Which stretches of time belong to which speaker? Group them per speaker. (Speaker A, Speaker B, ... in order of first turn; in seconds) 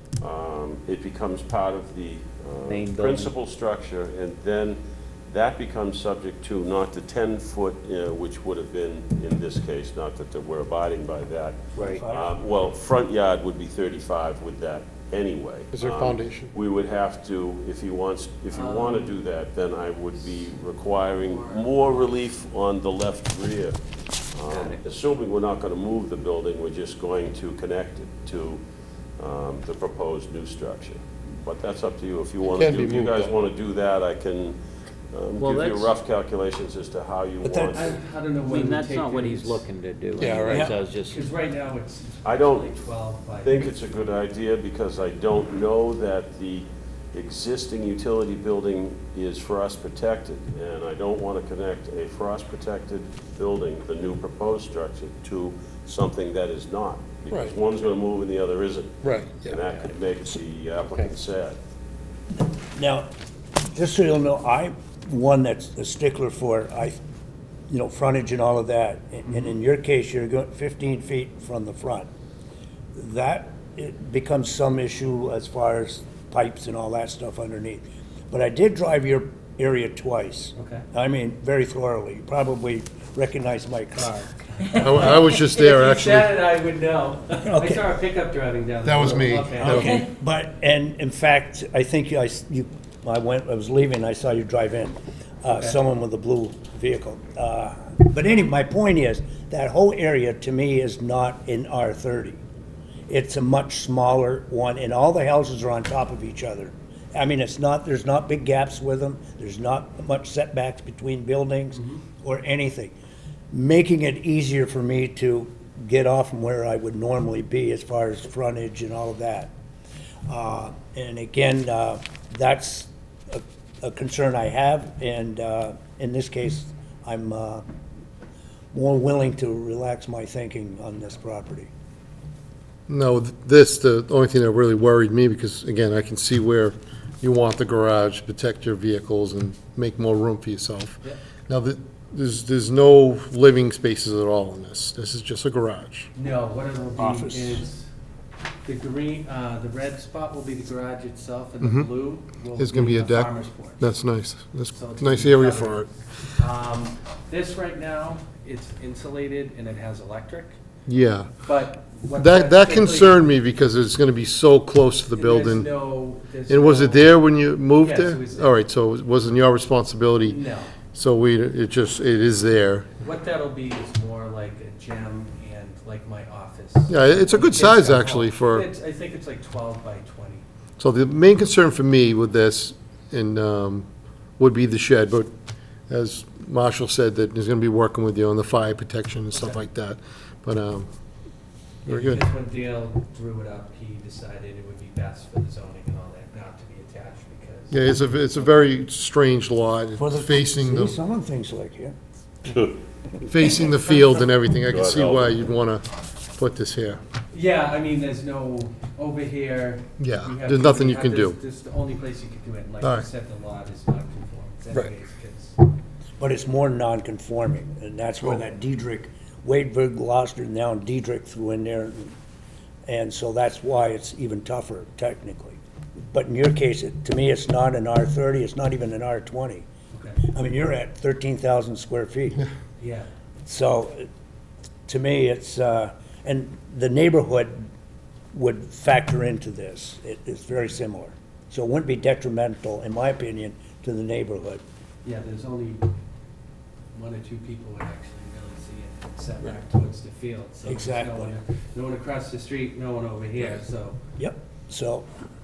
Speaker A: 0.2-28.6, 29.2-34.6, 35.1-38.0, 42.2-42.7, 43.4-61.6, 202.5-202.8, 204.7-205.4
Speaker B: 2.7-3.3, 35.4-35.9, 38.5-41.2, 60.9-61.1
Speaker C: 11.8-12.3, 37.4-37.9, 40.5-40.7, 62.6-63.1, 63.7-67.0, 67.7-72.1, 73.0-84.5, 87.4-87.9, 89.5-102.4, 103.1-112.9, 113.5-119.5, 120.3-127.6, 128.7-131.7, 146.9-147.7, 200.0-202.0, 216.2-222.1, 222.9-225.6, 226.1-229.7, 230.3-232.4, 233.4-234.1, 234.9-237.7, 238.3-244.6, 250.6-251.4, 254.2-255.1
Speaker D: 15.7-16.5, 32.5-33.4, 40.2-40.6, 57.3-57.6, 59.0-59.6, 84.8-86.4, 88.8-90.0, 132.9-146.1, 151.6-151.9, 152.6-155.9, 160.9-161.4, 162.2-165.8, 166.5-170.4, 170.9-172.9, 176.9-178.7, 180.8-185.3, 185.9-190.9, 191.9-192.2, 197.7-201.0, 203.3-207.0, 210.0-211.4, 212.8-213.1, 218.2-218.5
Speaker E: 18.5-19.1, 21.1-22.1, 24.5-24.8, 37.7-39.6, 40.2-43.8, 69.3-69.6, 80.5-80.8, 84.6-90.1, 111.7-112.0, 146.2-147.9, 148.7-153.8, 154.7-160.6, 161.4-163.2, 165.1-167.1, 167.7-168.5, 170.2-170.8, 173.0-180.4, 189.3-189.6, 191.9-197.8, 207.3-215.6, 229.9-230.2, 232.8-233.1, 245.0-245.9, 246.9-254.0